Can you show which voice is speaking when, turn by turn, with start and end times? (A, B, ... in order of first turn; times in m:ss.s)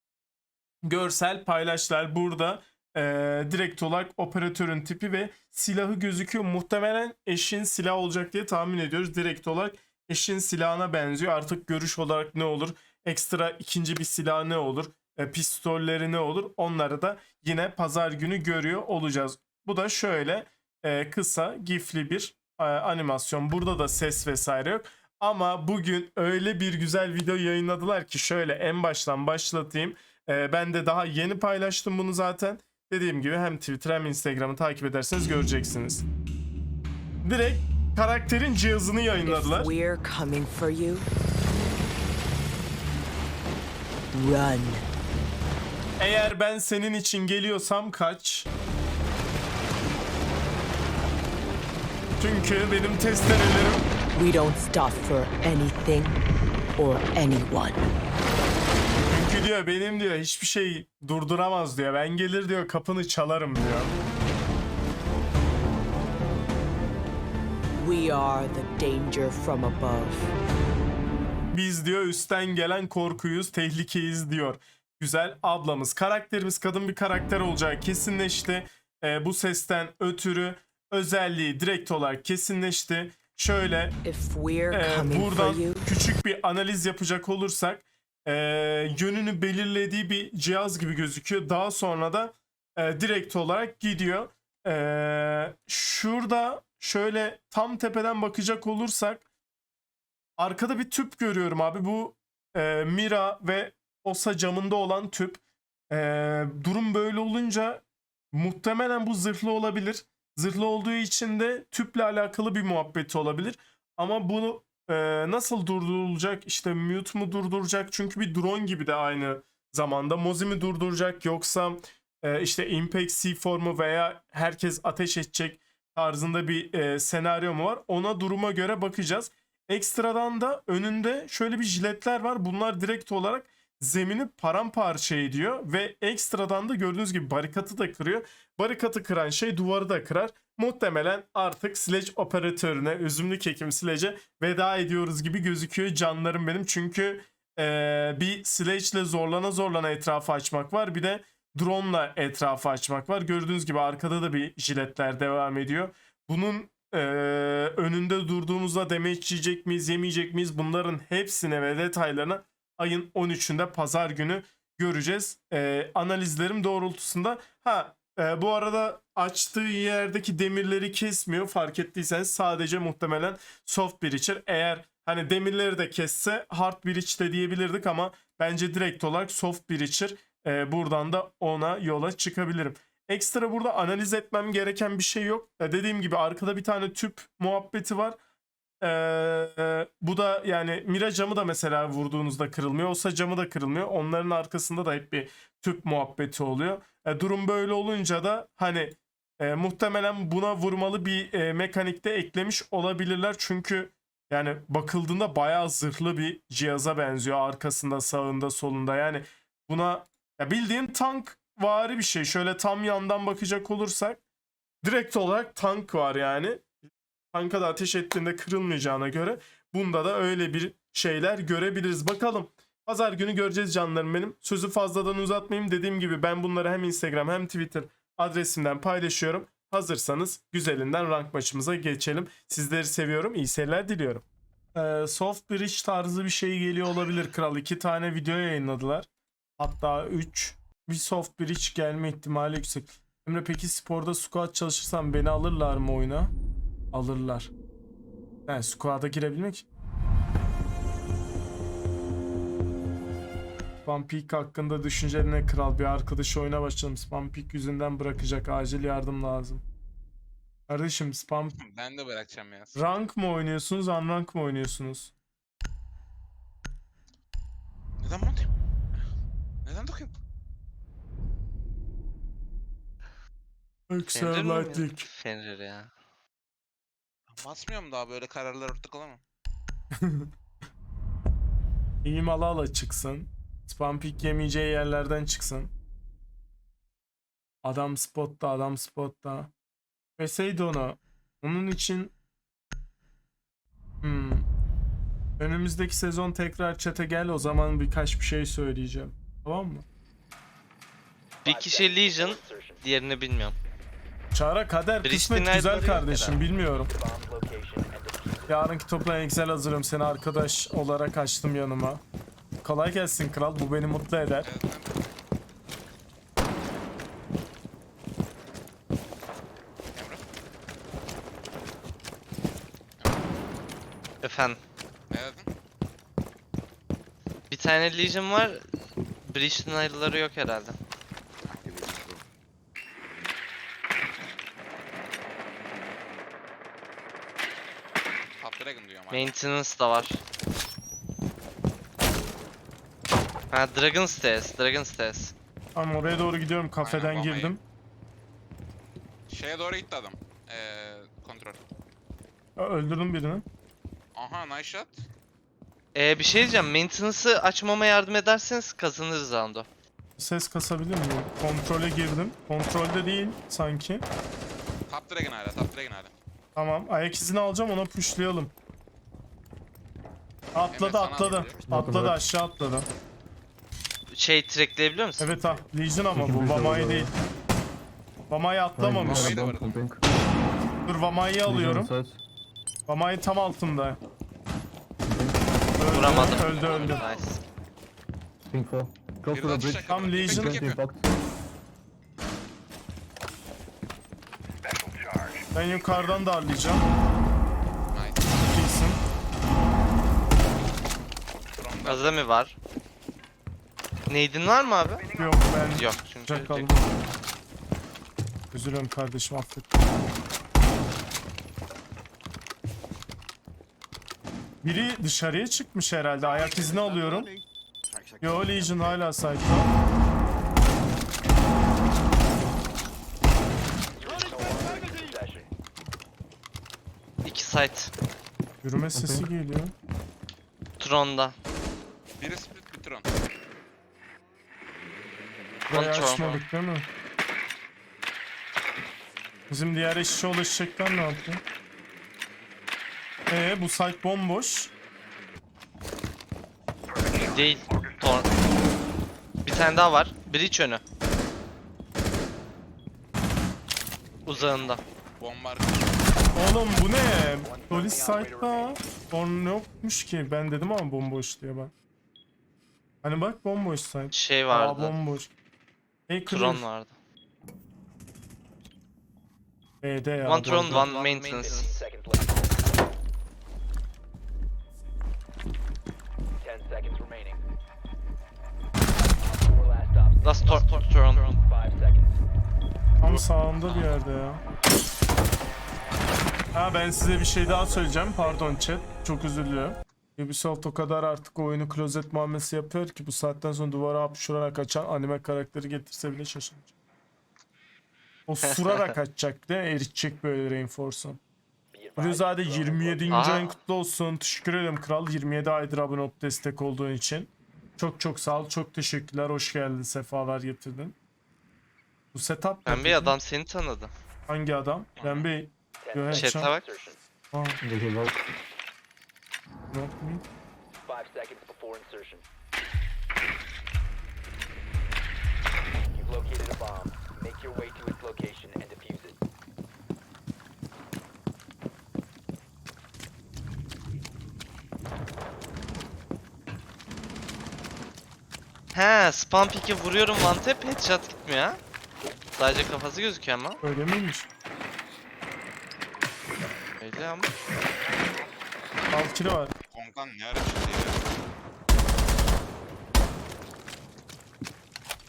0:00.8-0:36.0 A
0:37.2-0:39.7 A
0:39.2-0:41.1 B
0:44.1-0:44.9 B
0:46.0-0:48.5 A
0:52.2-0:53.8 A
0:54.1-0:56.2 B
0:56.8-0:57.9 B
0:59.0-1:03.9 A
1:07.8-1:10.3 B
1:11.5-1:24.0 A
1:24.0-1:25.8 B
1:24.7-1:39.2 A
1:40.4-1:45.4 A
1:45.9-3:08.2 A
3:08.8-3:34.2 A
3:34.8-3:36.7 A
3:37.3-3:59.1 A
3:59.6-4:06.3 A
4:06.9-4:07.5 A
4:08.4-4:09.6 A
4:13.8-4:19.6 A
4:20.7-4:21.6 A
4:21.6-4:22.8 C
4:22.7-4:25.1 A
4:28.0-4:29.0 C
4:29.6-4:30.1 C
4:33.9-4:35.1 A
4:34.1-4:35.9 D
4:37.3-4:39.2 C
4:40.0-4:40.3 A
4:42.0-4:45.7 A
4:47.6-4:49.5 A
4:50.2-4:52.1 A
4:54.0-4:54.4 A
4:55.4-4:59.8 A
5:01.4-5:03.6 D
5:01.4-5:02.8 E
5:04.3-5:06.9 A
5:05.0-5:06.4 D
5:06.6-5:08.6 E
5:08.5-5:12.0 A
5:12.6-5:14.5 A
5:14.4-5:14.9 C
5:19.9-5:20.2 C
5:24.2-5:24.6 D
5:25.1-5:25.5 C
5:27.5-5:28.6 D
5:29.2-5:30.8 D
5:31.4-5:32.0 C
5:38.4-5:39.3 C
5:39.1-5:40.2 D
5:43.5-5:45.3 D
5:45.7-5:47.6 A
5:46.8-5:47.6 C
5:49.3-5:51.6 C
5:52.6-5:53.4 A
5:54.1-5:55.0 C
5:55.9-5:59.6 D
6:00.2-6:04.1 A
6:04.9-6:06.1 C
6:06.5-6:08.5 A
6:10.5-6:12.9 A
6:10.7-6:11.7 C
6:11.7-6:12.2 F
6:14.1-6:15.4 D
6:15.2-6:17.1 A
6:16.1-6:17.1 F
6:18.3-6:19.4 A
6:18.8-6:20.0 F
6:19.0-6:19.8 C
6:20.8-6:21.9 A
6:21.4-6:22.2 F
6:22.9-6:24.0 A
6:25.0-6:25.4 F
6:25.8-6:27.0 A
6:25.9-6:27.4 D
6:28.5-6:31.1 F
6:29.3-6:30.8 C
6:29.9-6:30.7 A
6:34.6-6:35.5 E
6:35.5-6:36.9 A
6:37.9-6:38.4 C
6:38.4-6:39.0 A
6:41.4-6:42.2 C
6:41.8-6:42.6 D
6:44.1-6:45.1 D
6:45.2-6:46.9 A
6:45.6-6:46.7 D
6:48.5-6:49.8 A
6:54.6-6:57.4 A
6:58.2-6:59.7 A
7:03.9-7:05.5 E
7:07.2-7:07.9 D
7:08.6-7:09.7 A
7:08.9-7:09.3 F
7:10.8-7:11.3 D
7:12.2-7:13.1 C
7:15.7-7:16.9 A
7:15.7-7:16.4 D
7:19.5-7:21.4 A
7:23.3-7:24.7 A
7:27.1-7:28.3 D
7:29.4-7:30.8 D
7:34.2-7:34.8 D
7:35.2-7:36.0 C
7:36.3-7:41.7 A
7:37.4-7:38.8 E
7:43.0-7:45.3 A
7:44.1-7:45.0 D
7:46.1-7:46.6 A
7:46.3-7:46.9 D
7:49.8-7:50.9 A
7:50.2-7:51.7 D
7:50.6-7:52.6 E
7:56.4-7:57.4 E
7:59.1-8:02.1 E
8:00.2-8:01.4 D
8:03.0-8:04.4 A
8:03.0-8:04.0 C
8:06.5-8:16.7 A
8:07.2-8:09.0 E
8:18.3-8:21.2 A
8:18.5-8:18.9 D
8:21.7-8:23.4 E
8:22.0-8:31.0 A
8:23.1-8:23.5 D
8:32.1-8:33.2 A
8:32.6-8:33.9 D
8:34.3-8:36.5 A
8:35.0-8:35.3 C
8:35.8-8:37.0 E
8:36.1-8:36.6 D
8:37.3-8:37.6 A
8:37.6-8:38.3 F
8:39.7-8:40.2 A
8:40.8-8:42.2 E
8:45.9-8:49.2 E
8:58.7-9:01.6 D
9:02.3-9:03.6 D
9:03.6-9:04.3 A
9:06.8-9:07.3 D
9:08.9-9:09.5 A
9:09.7-9:11.1 C